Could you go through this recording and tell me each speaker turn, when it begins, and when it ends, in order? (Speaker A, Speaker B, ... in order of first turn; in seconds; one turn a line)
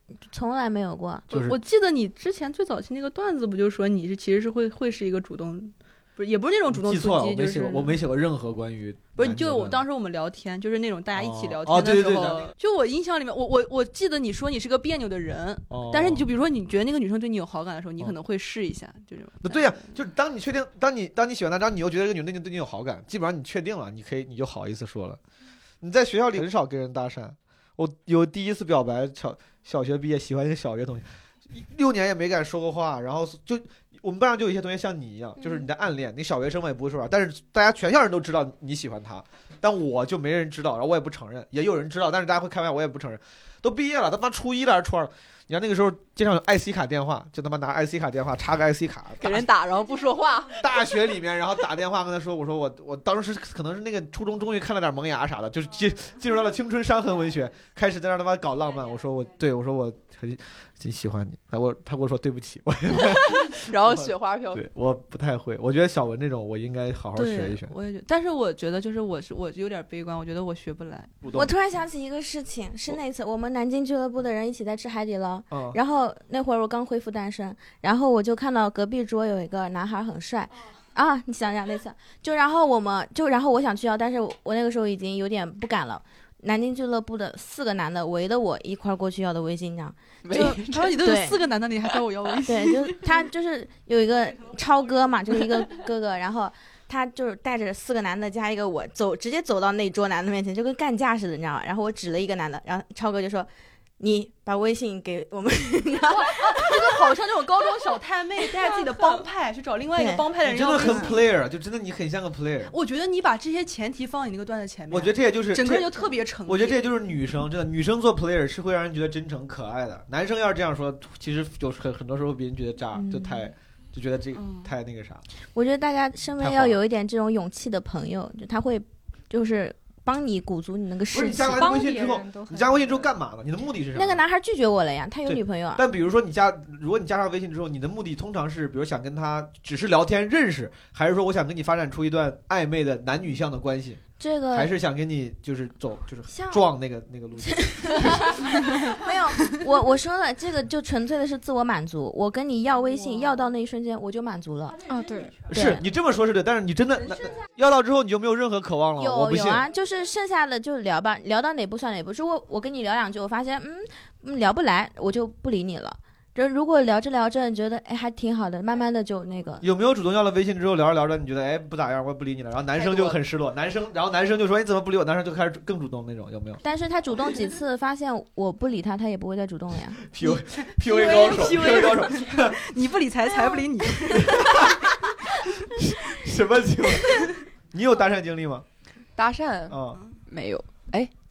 Speaker A: 0.3-1.3
Speaker B: 1.3-1.6
Speaker C: 1.3-8.0
Speaker B: 6.7-9.8
Speaker C: 9.2-20.0
Speaker B: 11.1-12.5
Speaker B: 15.7-16.3
Speaker B: 19.4-25.2
Speaker B: 25.8-49.5
Speaker D: 49.2-50.6
Speaker B: 50.6-67.7
Speaker D: 63.0-64.6
Speaker C: 67.1-71.1
Speaker B: 71.2-71.5
Speaker A: 71.3-91.4
Speaker B: 75.5-75.8
Speaker D: 90.2-91.0
Speaker C: 90.3-93.1
Speaker A: 92.5-107.0
Speaker C: 106.1-111.2
Speaker A: 110.0-110.2
Speaker B: 110.4-112.7
Speaker C: 112.7-116.9
Speaker B: 114.9-125.2
Speaker A: 122.9-123.5
Speaker C: 124.3-124.7
Speaker A: 125.5-131.7
Speaker B: 126.4-126.8
Speaker B: 131.1-134.2
Speaker E: 131.6-133.1
Speaker A: 133.9-135.8
Speaker B: 135.2-144.0
Speaker A: 144.2-144.7
Speaker B: 144.5-148.4
Speaker A: 146.3-146.6
Speaker A: 147.4-154.8
Speaker E: 154.9-155.5
Speaker B: 155.5-159.6
Speaker A: 155.5-155.8
Speaker A: 159.0-169.7
Speaker B: 169.6-176.6
Speaker A: 176.6-180.1
Speaker B: 180.0-182.6
Speaker C: 180.2-185.4
Speaker B: 184.2-184.9
Speaker B: 185.5-188.6
Speaker D: 189.2-191.1
Speaker B: 189.7-190.0